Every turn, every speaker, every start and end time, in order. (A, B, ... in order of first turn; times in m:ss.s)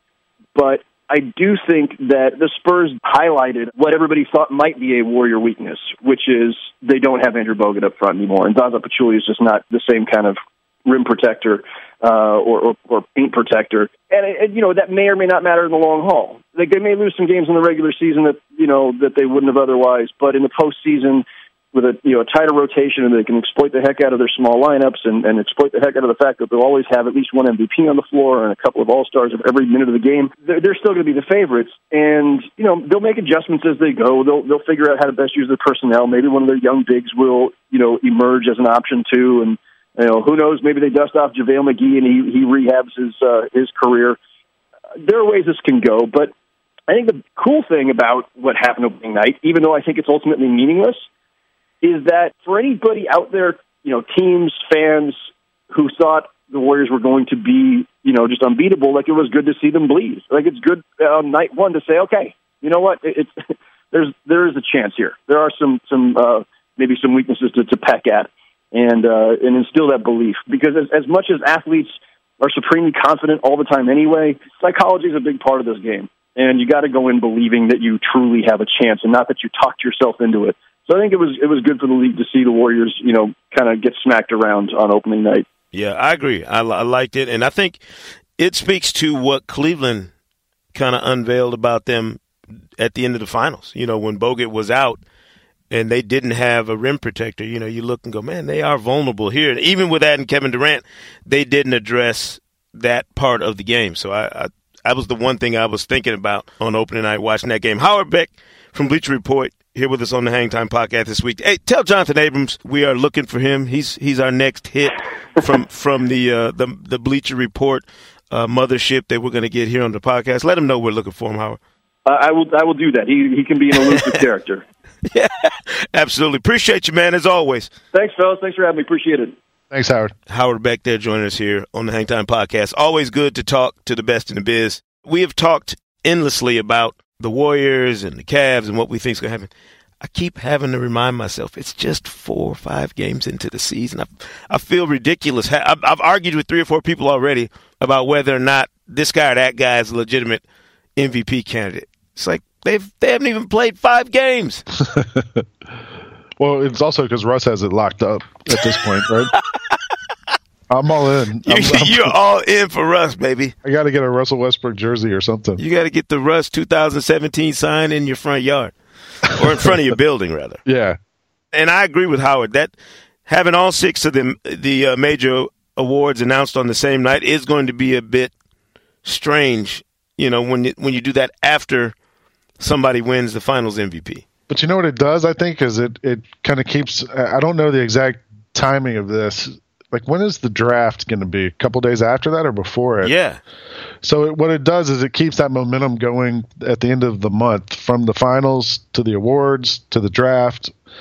0:00.5-0:44.2 A
0:45.0-0:46.3 A
0:46.9-0:51.0 A
0:51.8-0:55.2 A
0:55.7-1:03.3 A
1:03.9-1:25.4 A
1:25.7-1:27.8 B
1:28.4-1:30.1 B
1:30.7-1:32.2 B
1:32.8-1:35.0 B
1:35.7-2:01.6 B
2:02.0-2:04.6 A
2:05.0-2:07.7 B
2:07.9-2:09.3 A
2:09.7-2:10.1 C
2:10.3-2:19.5 B
2:20.0-2:30.4 B
2:31.0-2:34.6 B
2:34.8-2:35.4 C
2:36.4-2:39.3 C
2:40.7-2:42.1 C
2:41.4-2:43.5 B
2:43.6-2:45.6 C
2:45.6-2:50.6 B
2:50.6-2:51.0 C
2:51.5-2:52.7 B
2:53.3-2:58.3 B
2:59.0-3:01.9 B
3:02.6-3:04.2 B
3:04.5-3:13.1 C
3:13.0-3:13.4 B
3:14.0-3:20.7 C